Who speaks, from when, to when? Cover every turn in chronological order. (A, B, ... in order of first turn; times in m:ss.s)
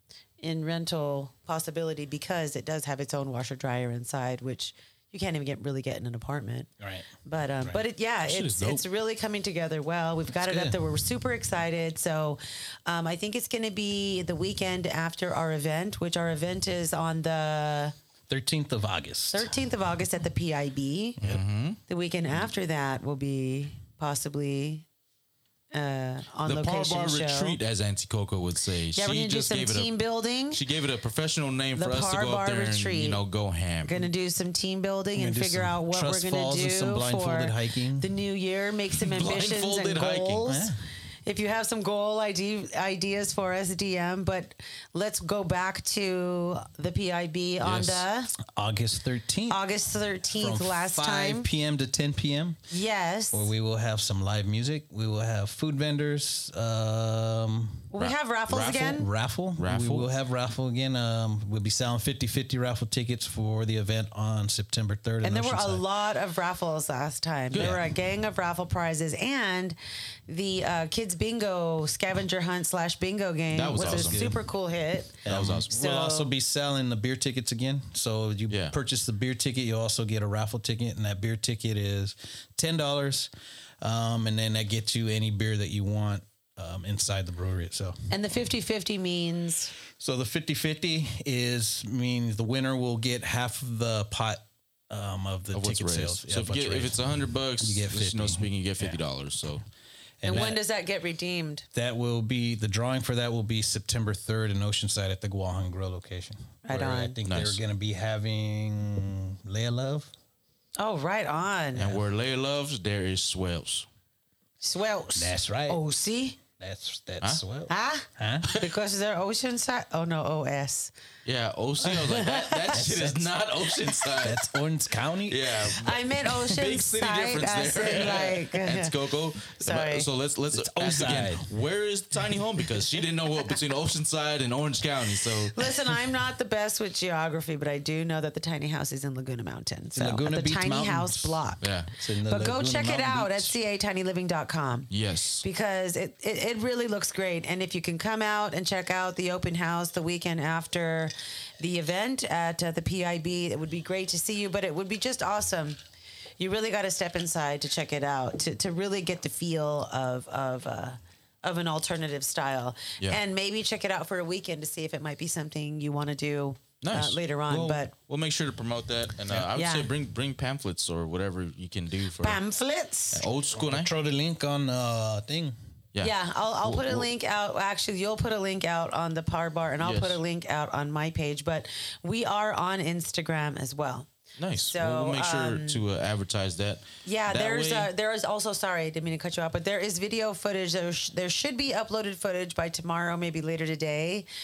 0:00.4-0:06.7 A
0:06.8-0:07.8 B
0:07.2-0:18.0 A
0:08.3-0:08.8 C
0:10.5-0:10.8 C
0:18.3-0:19.5 B
0:19.3-0:21.2 A
0:21.2-0:21.8 C
0:21.9-0:24.8 A
0:25.7-0:27.6 A
0:26.4-0:29.9 C
0:29.0-0:30.6 A
0:30.5-0:34.1 C
0:31.8-0:33.2 A
0:33.8-0:40.7 A
0:35.2-0:38.1 B
0:39.0-0:40.5 C
0:40.5-0:40.8 B
0:41.2-0:48.3 A
0:47.6-0:48.1 C
0:48.6-0:49.6 B
0:49.5-0:51.5 A
0:50.4-0:52.6 B
0:52.7-0:53.5 A
0:53.3-0:57.9 B
0:57.9-0:59.1 A
0:58.0-0:58.7 C
0:58.6-1:05.8 B
0:59.6-1:00.1 C
1:05.2-1:09.8 A
1:07.5-1:07.8 C
1:07.6-1:07.8 B
1:10.3-1:16.3 A
1:13.5-1:14.4 C
1:13.9-1:14.4 B
1:15.2-1:15.7 C
1:15.2-1:23.3 B
1:18.5-1:18.8 C
1:23.8-1:28.0 B
1:28.1-1:29.7 A
1:29.9-1:37.1 B
1:35.5-1:39.6 C
1:37.6-1:39.0 B
1:40.2-1:40.6 B
1:40.2-1:41.7 A
1:41.7-1:50.1 B
1:46.6-1:47.2 A
1:47.3-1:47.6 C
1:50.8-1:52.0 A
1:51.8-1:53.9 C
1:54.6-1:56.4 A
1:55.2-1:55.8 B
1:56.6-1:58.5 B
1:57.7-2:00.9 A
2:01.2-2:04.5 C
2:01.9-2:02.8 A
2:02.7-2:03.3 B
2:04.2-2:05.5 B
2:05.2-2:15.7 C
2:05.8-2:08.9 A
2:09.6-2:10.1 A
2:10.5-2:11.5 B
2:15.5-2:21.6 A
2:20.0-2:21.4 B
2:21.6-2:21.9 C
2:22.0-2:23.5 B
2:22.3-2:24.9 A
2:24.9-2:25.4 C
2:25.4-2:35.8 A
2:36.4-2:47.9 A
2:46.8-2:52.4 C
2:49.5-2:49.9 A
2:52.2-2:53.2 A
2:53.1-2:53.9 C
2:53.5-2:55.6 B
2:56.0-2:57.1 C
2:56.0-3:04.1 A
2:59.8-3:00.2 C
3:04.4-3:07.9 C
3:04.7-3:05.8 A
3:07.0-3:14.3 A